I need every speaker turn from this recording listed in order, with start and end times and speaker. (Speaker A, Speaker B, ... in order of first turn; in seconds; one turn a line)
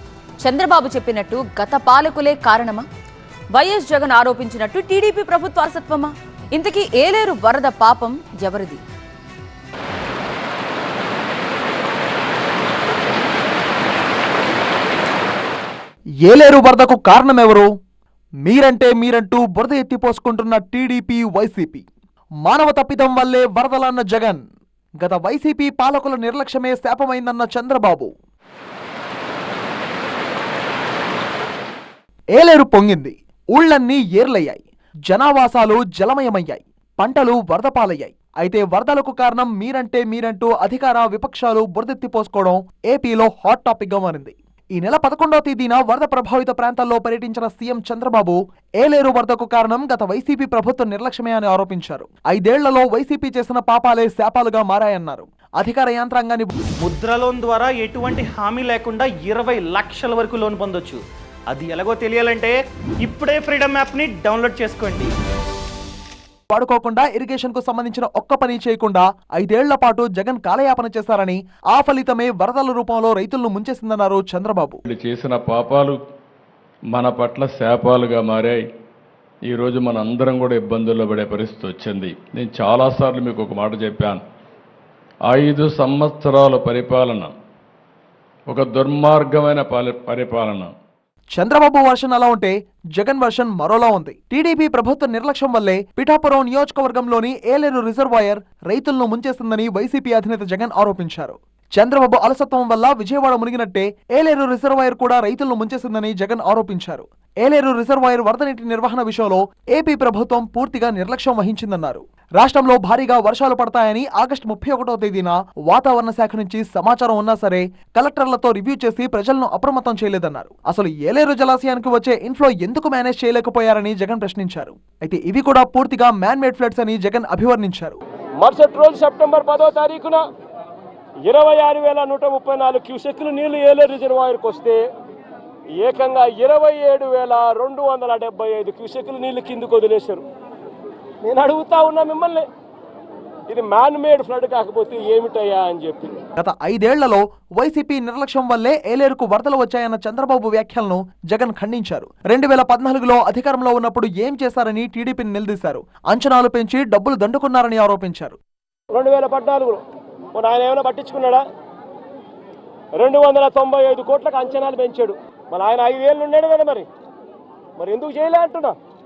Speaker A: 0.4-2.8
Speaker A: 3.5-8.8
Speaker B: 16.2-17.7
Speaker B: 18.4-21.9
Speaker B: 22.4-24.4
Speaker B: 25.0-28.1
Speaker B: 32.3-56.5
Speaker C: 56.8-65.1
Speaker B: 66.5-74.8
Speaker D: 74.9-76.0
Speaker D: 76.9-78.6
Speaker D: 79.5-84.2
Speaker D: 85.3-87.3
Speaker D: 88.5-90.7
Speaker B: 91.3-128.0
Speaker E: 128.4-130.2
Speaker E: 131.2-134.8
Speaker E: 135.8-140.2
Speaker E: 141.2-142.4
Speaker E: 143.5-146.2
Speaker B: 146.4-158.4
Speaker E: 158.9-159.8
Speaker E: 160.3-161.4
Speaker E: 163.0-166.8
Speaker E: 167.8-168.7